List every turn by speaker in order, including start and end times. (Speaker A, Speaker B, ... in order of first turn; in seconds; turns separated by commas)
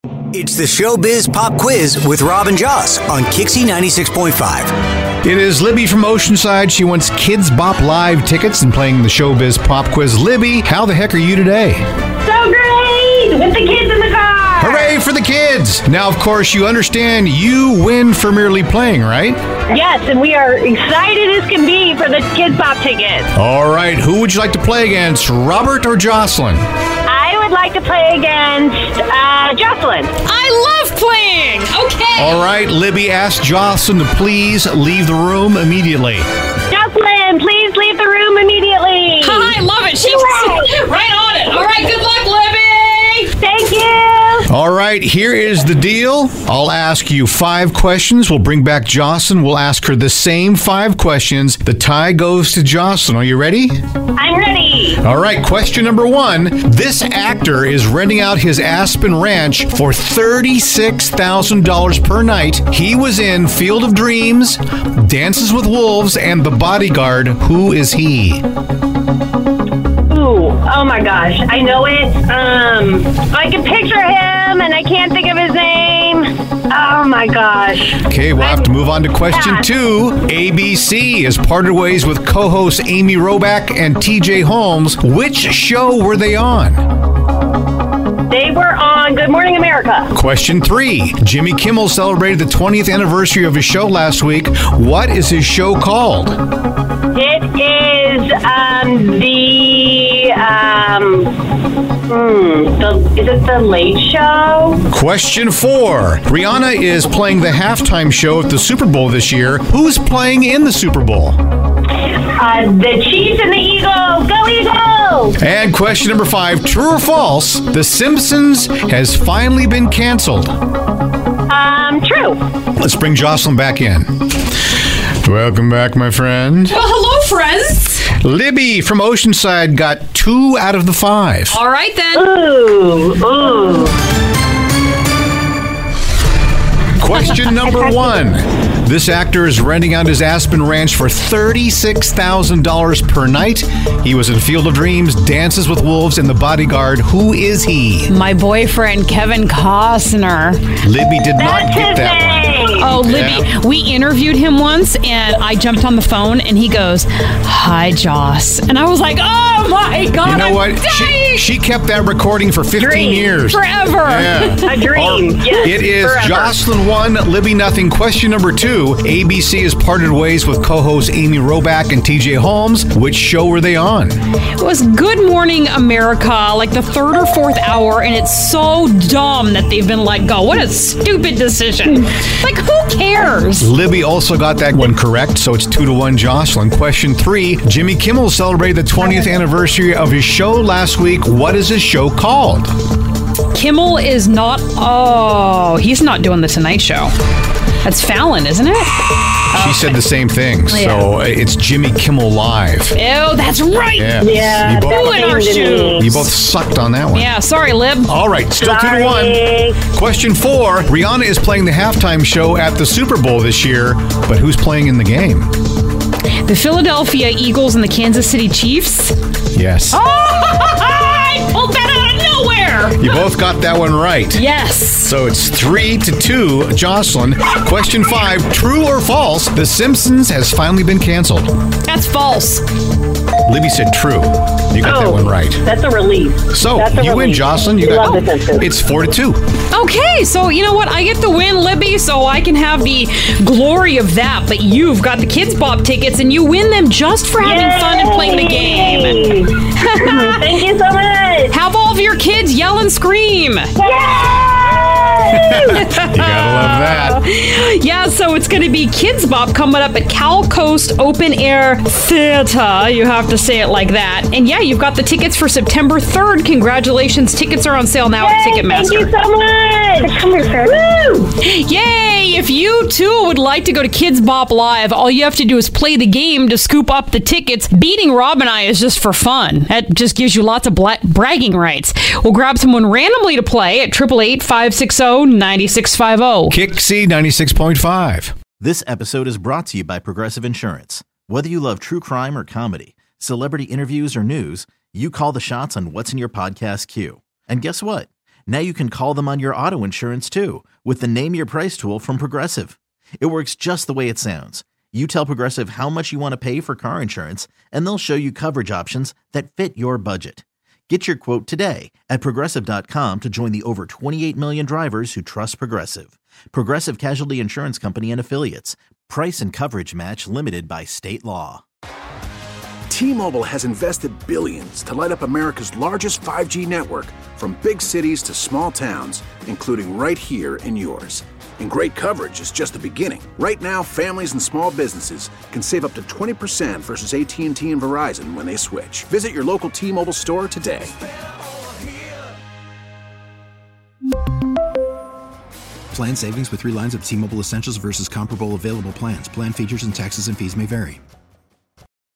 Speaker A: 0.3-4.8, Speaker B: 5.2-11.8, Speaker C: 12.2-14.9, Speaker B: 14.6-19.4, Speaker C: 19.7-23.3, Speaker B: 23.4-26.6, Speaker C: 27.1-30.1, Speaker D: 30.2-32.4, Speaker B: 32.2-36.3, Speaker C: 36.7-40.7, Speaker D: 39.2-43.3, Speaker C: 43.4-44.5, Speaker B: 44.5-53.8, Speaker C: 54.2-55.0, Speaker B: 55.0-68.5, Speaker C: 70.1-78.7, Speaker B: 78.0-86.9, Speaker C: 79.3-79.6, Speaker C: 88.3-90.1, Speaker B: 90.1-96.4, Speaker C: 97.1-101.3, Speaker C: 102.1-104.8, Speaker B: 104.9-111.4, Speaker C: 112.1-115.4, Speaker B: 115.4-120.6, Speaker C: 121.5-122.4, Speaker B: 122.8-124.2, Speaker B: 125.2-126.8, Speaker D: 126.7-128.1, Speaker B: 128.1-131.6, Speaker D: 131.5-132.3, Speaker C: 132.1-133.9, Speaker B: 137.0-148.1, Speaker D: 148.1-150.6, Speaker B: 150.8-153.5, Speaker C: 151.4-153.0, Speaker D: 152.8-161.3, Speaker B: 160.2-174.2, Speaker C: 162.8-163.3, Speaker D: 163.5-164.9, Speaker C: 164.6-166.6, Speaker D: 174.6-183.7, Speaker B: 183.6-192.8, Speaker D: 193.5-197.1, Speaker D: 197.8-200.0, Speaker B: 199.5-203.0, Speaker D: 200.7-201.1, Speaker D: 202.9-204.2, Speaker B: 204.0-207.3, Speaker C: 204.2-206.1, Speaker D: 204.8-206.3, Speaker D: 207.1-208.1, Speaker B: 208.1-215.5, Speaker C: 208.6-209.8, Speaker D: 216.4-219.2, Speaker B: 219.5-220.0, Speaker D: 219.9-223.2, Speaker B: 223.0-224.4, Speaker D: 224.3-225.1, Speaker B: 225.0-231.6, Speaker D: 231.8-232.7, Speaker B: 233.5-235.6, Speaker C: 234.8-238.7, Speaker B: 236.5-239.4, Speaker D: 239.7-250.4, Speaker C: 247.4-251.6, Speaker D: 251.5-253.7, Speaker C: 253.8-255.6, Speaker D: 255.4-269.1, Speaker B: 255.6-257.2, Speaker C: 268.2-271.3, Speaker D: 271.4-286.6, Speaker B: 286.5-288.3, Speaker E: 288.6-321.6, Speaker F: 322.9-340.9, Speaker G: 345.9-351.0